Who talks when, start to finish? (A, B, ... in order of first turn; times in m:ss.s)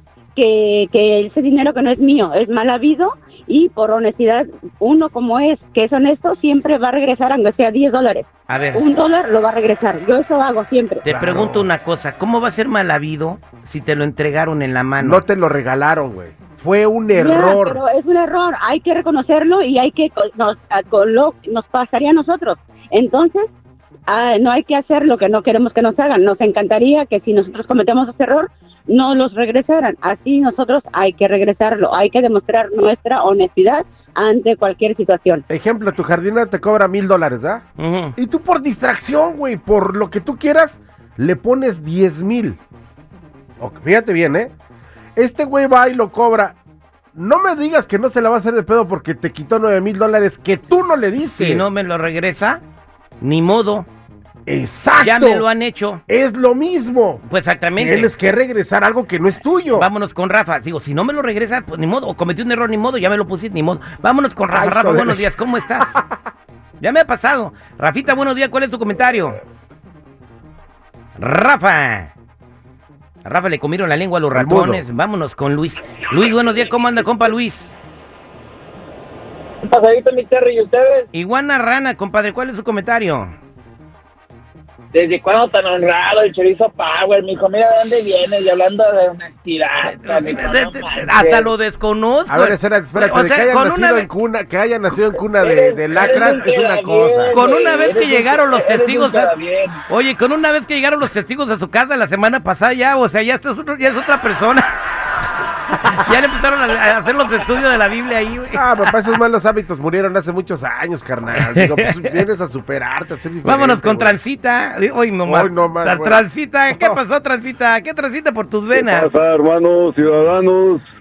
0:00.3-0:11.0 A
0:08.5-0:08.8 B
0:11.0-0:15.2 B
0:11.0-0:11.7 C
0:15.0-0:17.8 C
0:17.1-0:23.5 A
0:24.1-0:35.4 A
0:35.5-0:37.6 C
0:37.8-0:38.1 B
0:38.2-0:42.6 C
0:43.6-0:44.5 C
0:45.2-0:46.6 C
0:47.1-0:51.6 C
0:51.3-0:52.6 B
0:53.2-0:53.9 B
0:54.4-0:55.5 C
0:55.0-0:56.0 B
0:56.1-0:57.2 C
0:57.2-0:58.1 B
0:57.8-0:59.9 C
0:59.7-1:06.0 B
1:04.5-1:05.4 C
1:06.8-1:09.4 B
1:11.2-1:12.1 B
1:13.2-1:17.7 B
1:14.3-1:14.8 C
1:19.6-1:21.0 D
1:21.1-1:23.3 B
1:24.9-1:31.4 D
1:29.8-1:34.1 B
1:32.3-1:37.4 C
1:35.5-1:39.8 D
1:37.3-1:39.3 B
1:39.9-1:44.7 B
1:45.7-1:48.6 B
1:48.5-1:54.2 C
1:51.4-1:52.2 B
1:53.4-1:59.1 B
1:55.2-1:57.0 C
1:58.7-2:00.8 E